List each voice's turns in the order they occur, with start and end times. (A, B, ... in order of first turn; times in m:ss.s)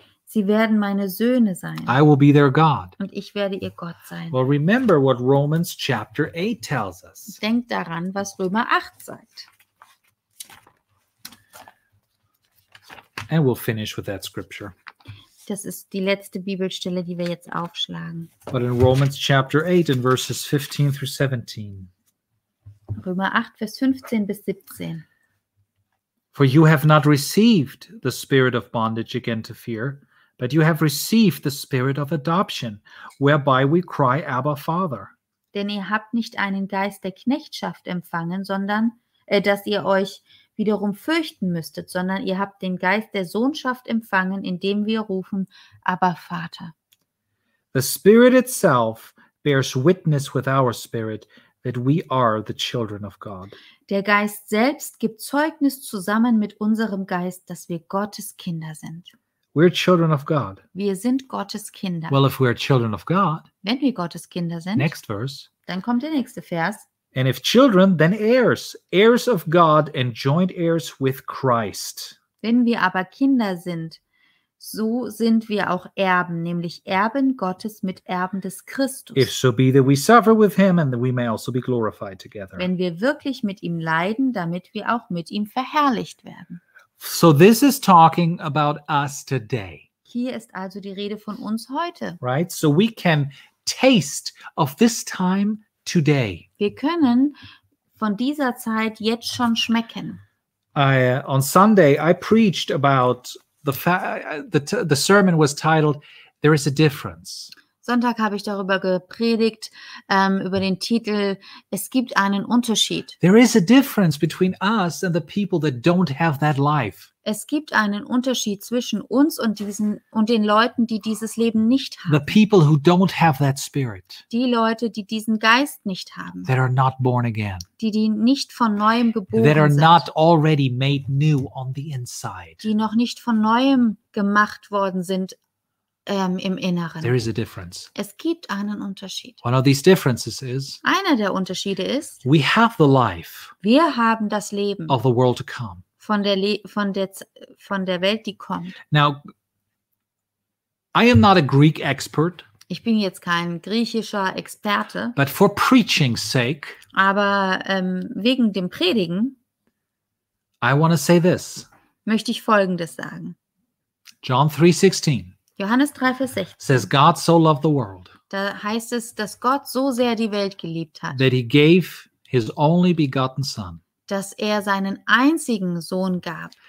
0:00.3-0:02.0 A
0:01.9-0:03.0 B
0:03.0-0:04.4 A
0:04.3-0:07.4 B
0:07.3-0:09.5 A
0:13.3-0:14.7 B
0:15.5-0:18.3 A
0:18.5-0:21.9 B
0:23.0-0:25.0 A
0:26.3-0:35.1 B
0:35.5-0:46.7 A
0:47.7-0:53.5 B
0:53.9-0:59.1 A
0:59.5-1:00.6 B
1:00.8-1:02.2 A
1:02.1-1:03.4 B
1:03.6-1:05.0 A
1:04.8-1:05.5 B
1:05.7-1:06.9 A
1:07.1-1:12.2 B
1:12.4-1:14.0 A
1:14.6-1:19.3 A
1:19.2-1:22.7 B
1:22.6-1:26.6 A
1:27.0-1:29.8 B
1:30.1-1:32.2 A
1:32.2-1:36.5 B
1:36.6-1:37.4 A
1:38.0-1:40.2 A
1:40.8-1:47.5 B
1:47.8-1:53.2 A
1:53.2-1:57.1 B
1:57.2-2:02.3 A
2:02.1-2:04.2 B
2:04.3-2:06.5 A
2:06.5-2:07.6 B
2:07.8-2:10.1 A
2:09.4-2:12.7 B
2:12.6-2:15.4 A
2:16.1-2:17.2 A
2:17.0-2:17.9 B
2:18.0-2:19.4 A
2:19.4-2:20.8 B
2:20.8-2:22.2 A
2:22.2-2:23.5 B
2:23.6-2:25.0 A
2:24.9-2:25.8 B
2:26.0-2:28.8 A
2:28.9-2:29.2 B
2:30.9-2:32.5 B
2:32.7-2:35.2 A
2:35.2-2:36.8 B
2:36.9-2:39.4 A
2:40.6-2:41.7 B
2:42.1-2:43.4 A
2:44.2-2:45.3 B
2:45.6-2:46.9 A
2:46.6-2:48.1 B
2:48.3-2:51.2 A
2:51.1-2:53.8 B
2:54.1-2:56.6 A